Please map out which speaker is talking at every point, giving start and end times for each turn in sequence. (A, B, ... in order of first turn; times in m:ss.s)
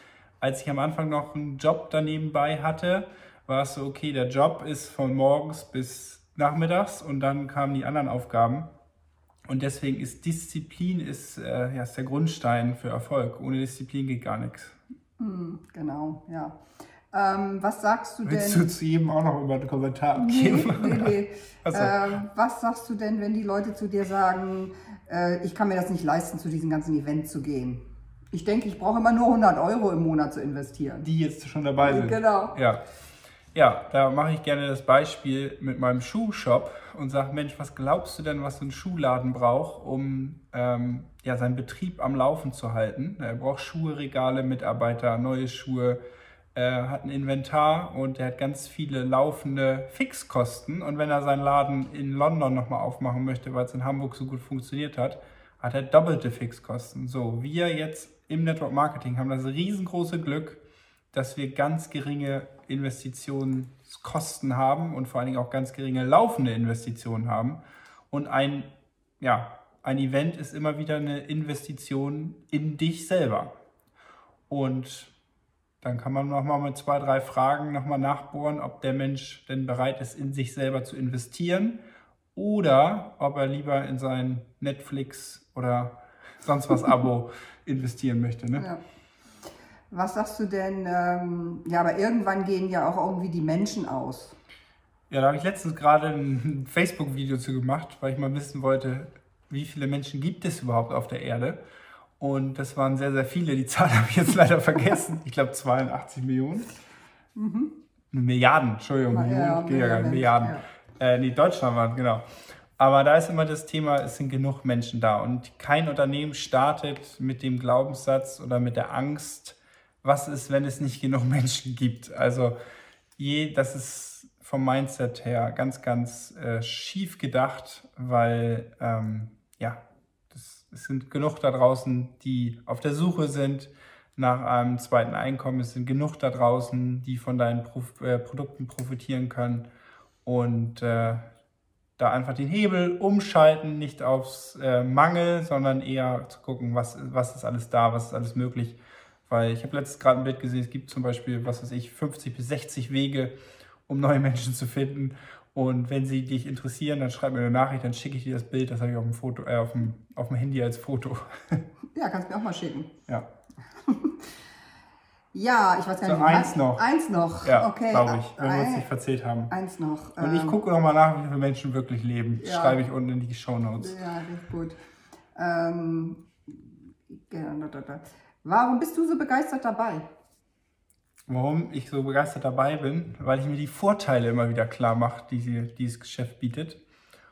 0:00.4-0:08.7 A
0:09.5-0:14.8 A
0:15.2-0:16.6 B
0:17.1-0:18.6 B
0:18.2-0:22.2 A
0:20.1-0:27.8 B
0:28.3-0:31.0 B
0:31.0-0:32.8 A
0:31.8-0:32.5 B
0:33.5-0:46.0 A
0:46.5-1:00.6 A
1:01.1-1:13.5 A
1:14.5-1:15.1 A
1:15.8-1:21.8 A
1:22.3-1:28.6 A
1:29.9-1:34.4 B
1:35.1-1:41.6 A
1:42.2-1:46.7 A
1:47.3-1:47.7 B
1:48.1-1:52.2 A
1:49.1-1:50.6 B
1:52.8-2:02.5 A
2:03.2-2:19.7 A
2:20.2-2:21.3 A
2:22.0-2:33.3 A
2:33.9-2:41.6 A
2:41.9-2:42.9 B
2:43.8-2:44.3 B
2:45.3-2:48.8 B
2:46.0-2:46.8 A
2:47.4-2:49.5 A
2:49.5-2:50.6 B
2:50.2-2:54.0 A
2:52.4-2:52.8 B
2:53.8-2:54.8 B
2:55.3-3:00.1 B
3:01.3-3:06.8 A